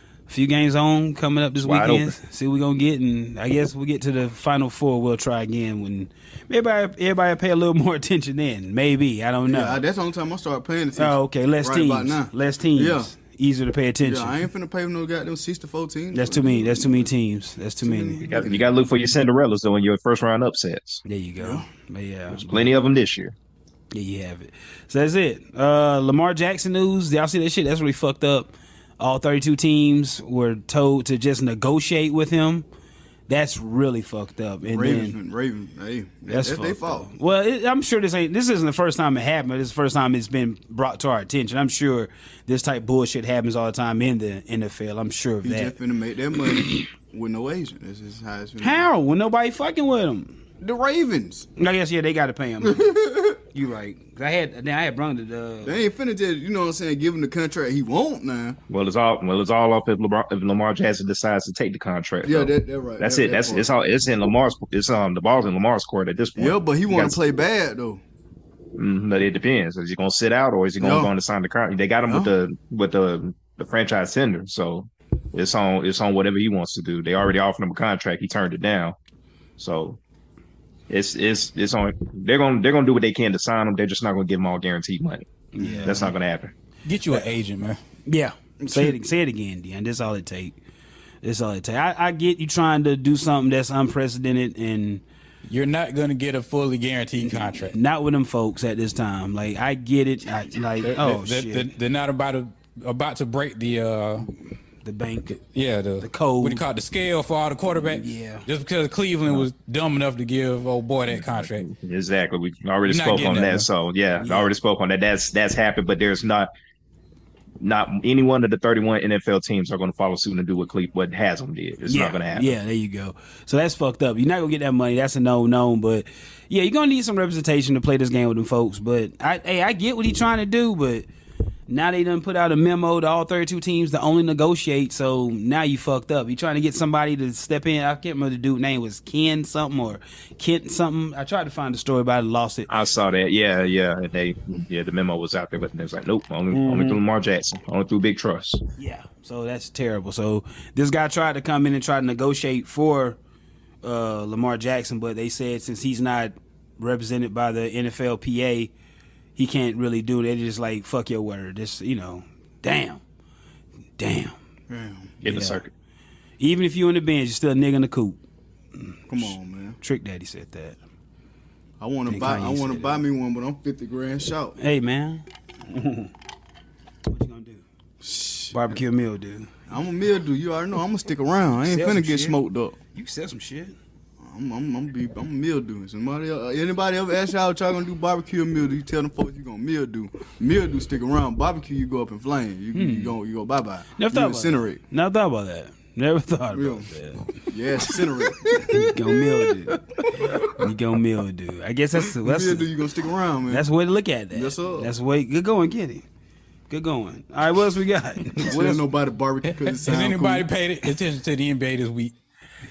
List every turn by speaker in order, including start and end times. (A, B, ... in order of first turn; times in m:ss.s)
0:00.3-0:09.8 A
0:01.6-0:02.2 B
0:09.5-0:13.1 C
0:11.0-0:14.4 A
0:14.0-0:17.1 C
0:16.1-0:18.3 A
0:17.8-0:18.7 C
0:18.3-0:21.0 B
0:21.0-0:22.7 A
0:21.4-0:21.6 C
0:22.3-0:23.3 B
0:23.9-0:32.6 A
0:33.3-0:35.2 A
0:34.6-0:37.1 C
0:36.3-0:45.7 A
0:45.4-0:48.9 C
0:48.6-0:50.4 A
0:50.6-0:51.5 C
0:51.6-0:55.8 A
0:52.6-0:53.4 C
0:55.6-0:58.6 C
0:58.7-1:07.2 B
1:02.2-1:03.7 C
1:06.4-1:08.0 C
1:08.8-1:19.0 B
1:10.8-1:11.1 C
1:19.6-1:20.0 B
1:20.9-1:25.3 B
1:25.5-1:26.1 A
1:25.6-1:26.0 C
1:25.8-1:26.5 B
1:26.8-1:27.8 D
1:28.1-1:30.6 A
1:28.6-1:28.9 C
1:31.2-1:35.0 A
1:35.5-1:37.8 D
1:37.2-1:41.7 A
1:40.8-1:44.3 D
1:44.8-1:45.3 A
1:45.3-1:51.6 D
1:46.0-1:46.6 A
1:47.9-1:48.4 A
1:51.1-1:56.5 B
1:52.8-1:53.7 D
1:54.2-1:54.5 A
1:57.6-2:02.6 B
2:01.9-2:11.1 A
2:11.7-2:22.7 A
2:22.7-2:28.6 B
2:26.5-2:27.0 A
2:28.8-2:33.2 A
2:33.8-2:38.7 A
2:39.4-2:43.0 A
2:44.0-2:44.4 A
2:44.7-2:45.1 C
2:45.2-2:45.7 B
2:45.2-2:45.6 A
2:46.4-2:48.2 A
2:48.8-2:50.8 A
2:49.1-2:49.8 C
2:51.8-2:54.6 C
2:52.1-2:53.0 A
2:54.6-2:56.1 A
2:57.1-2:57.6 A
2:58.0-2:58.6 C
2:58.5-2:59.5 A
2:59.7-3:02.7 C
3:01.7-3:02.4 A
3:02.9-3:03.8 A
3:04.2-3:14.8 C
3:12.7-3:13.1 A
3:14.0-3:17.3 A
3:16.5-3:16.9 C
3:17.5-3:19.4 C
3:18.7-3:22.7 A
3:20.0-3:20.5 C
3:22.2-3:23.7 C
3:23.5-3:26.0 A
3:24.3-3:24.9 C
3:26.7-3:28.8 A
3:28.4-3:30.5 C
3:29.4-3:32.1 D